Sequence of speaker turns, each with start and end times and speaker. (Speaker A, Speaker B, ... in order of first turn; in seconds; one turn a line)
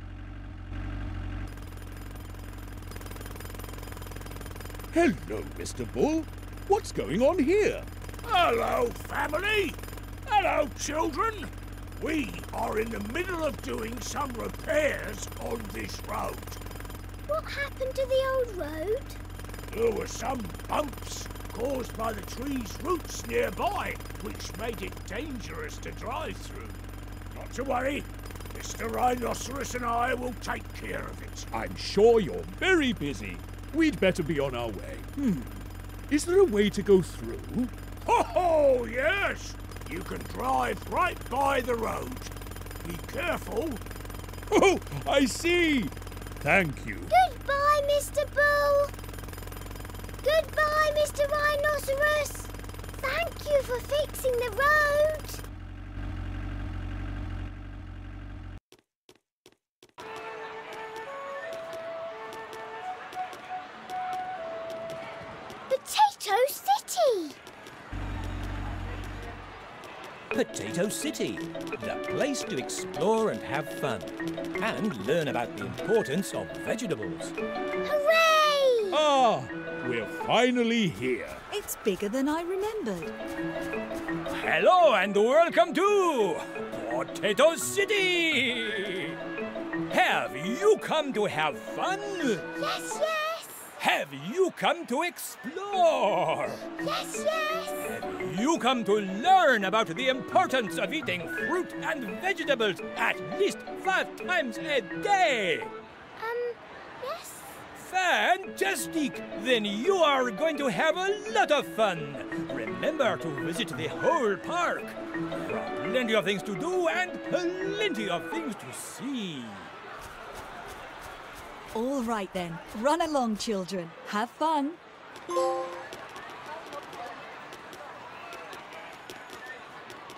Speaker A: 4.9-7.9
Speaker B: 8.2-16.6
Speaker C: 17.3-19.2
Speaker B: 19.7-31.5
Speaker A: 31.5-37.7
Speaker B: 38.0-43.8
Speaker A: 44.5-47.1
Speaker C: 47.1-48.9
Speaker C: 50.2-55.4
Speaker C: 65.7-67.4
Speaker D: 70.3-77.3
Speaker C: 77.8-79.0
Speaker A: 78.9-81.4
Speaker E: 81.5-83.1
Speaker D: 84.3-89.2
Speaker D: 89.9-92.5
Speaker C: 92.6-93.7
Speaker D: 93.8-96.6
Speaker C: 96.8-97.8
Speaker D: 97.8-105.7
Speaker C: 106.2-107.6
Speaker D: 107.8-119.7
Speaker E: 121.7-124.8